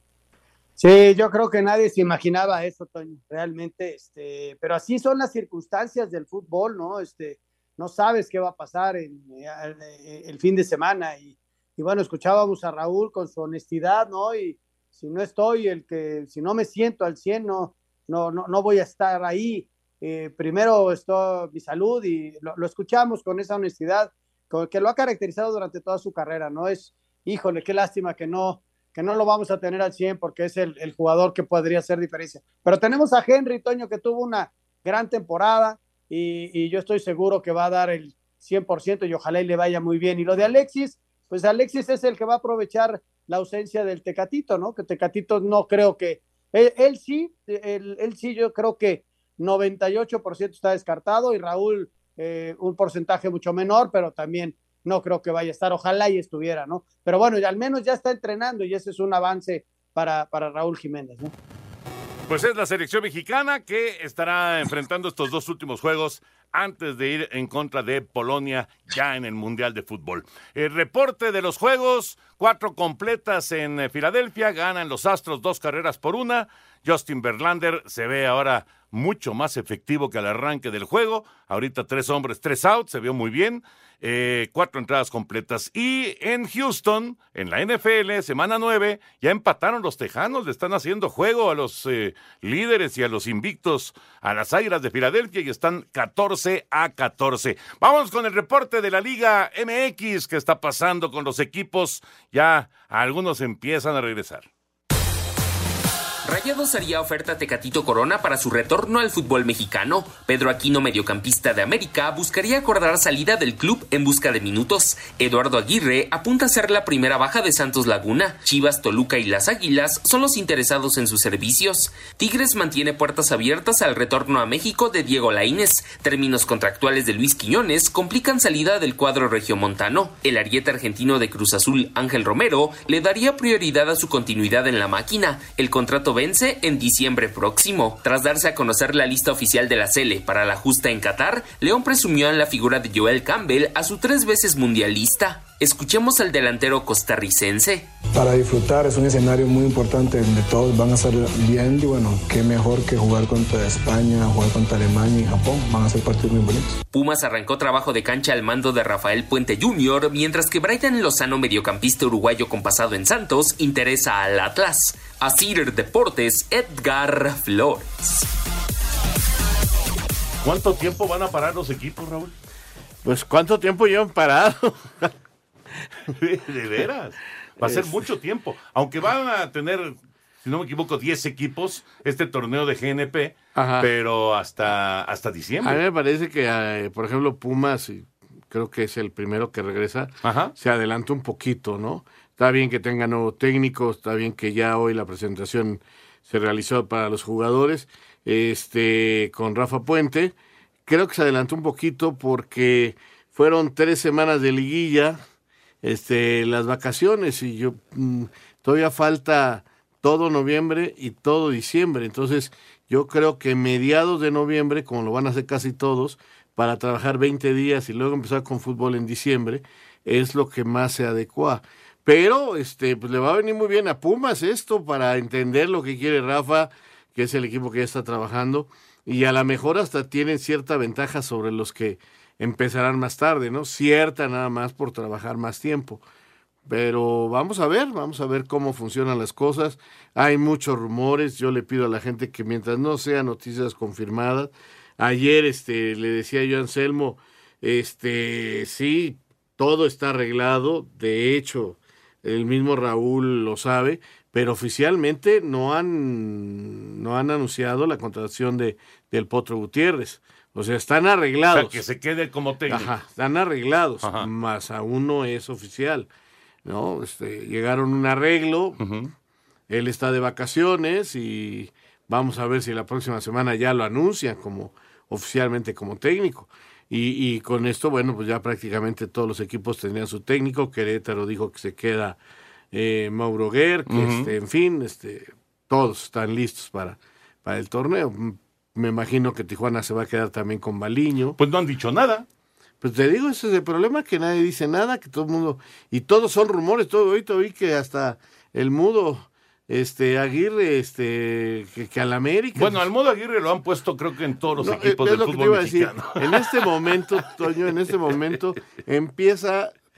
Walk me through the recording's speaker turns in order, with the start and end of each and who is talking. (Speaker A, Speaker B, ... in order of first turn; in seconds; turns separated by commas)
Speaker A: 0.8-61.3, Speaker B: 62.3-104.5, Speaker C: 106.2-147.9, Speaker D: 148.1-156.8, Speaker C: 156.9-168.2, Speaker B: 170.4-172.3, Speaker E: 173.0-175.2, Speaker B: 176.1-185.8, Speaker E: 177.6-178.0, Speaker E: 183.6-183.9, Speaker E: 185.6-200.3, Speaker B: 190.2-190.5, Speaker E: 200.9-205.2, Speaker E: 205.8-236.0, Speaker E: 236.7-261.8, Speaker B: 261.5-262.9, Speaker E: 262.7-266.1, Speaker B: 264.0-264.3, Speaker E: 266.6-268.8, Speaker B: 268.8-269.1, Speaker E: 269.7-282.2, Speaker E: 282.7-291.4, Speaker B: 283.9-284.3, Speaker B: 291.4-292.3, Speaker E: 292.8-302.9, Speaker B: 302.6-307.0, Speaker E: 304.6-309.7